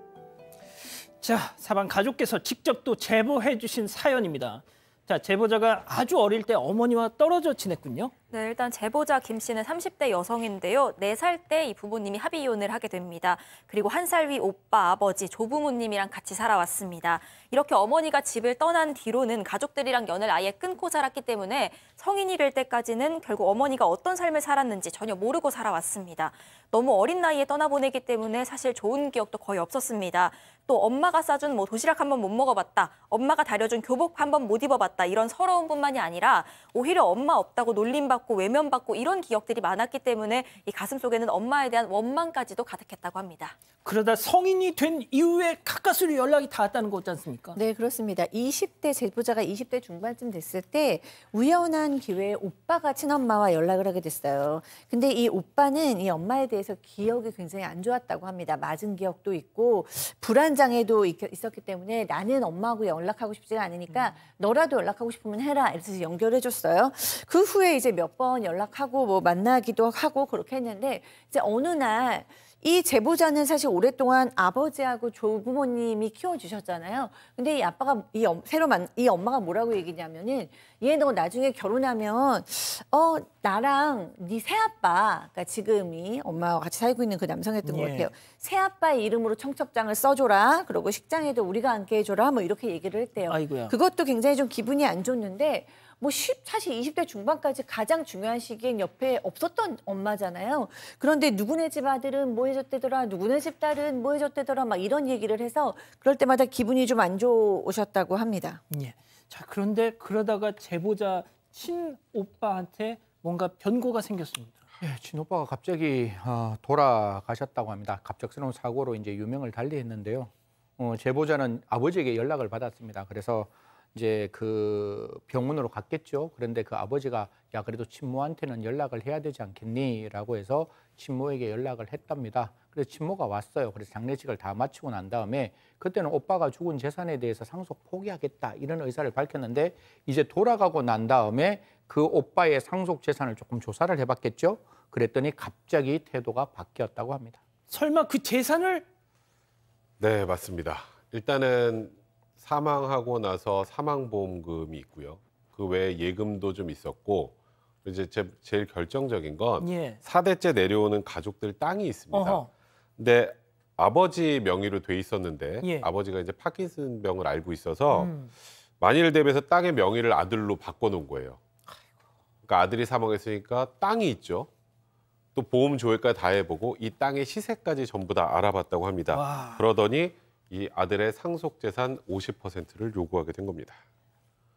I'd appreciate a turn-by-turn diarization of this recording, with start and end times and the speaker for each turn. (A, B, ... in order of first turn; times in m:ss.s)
0:01.2-0:08.1 A
0:08.3-0:43.6 B
0:43.8-0:47.6 A
0:47.6-1:48.6 C
1:27.6-1:28.1 A
1:33.3-1:33.7 A
1:48.7-1:54.6 A
1:54.8-2:27.4 D
2:27.7-2:28.8 A
2:30.0-2:42.4 E
2:39.6-2:40.0 A
2:42.1-2:42.5 A
2:43.0-2:48.1 E
2:45.6-2:45.9 A
2:47.9-2:48.3 A
2:48.8-2:51.4 E
2:52.4-2:54.5 E
2:55.3-3:03.8 E
2:59.1-2:59.6 A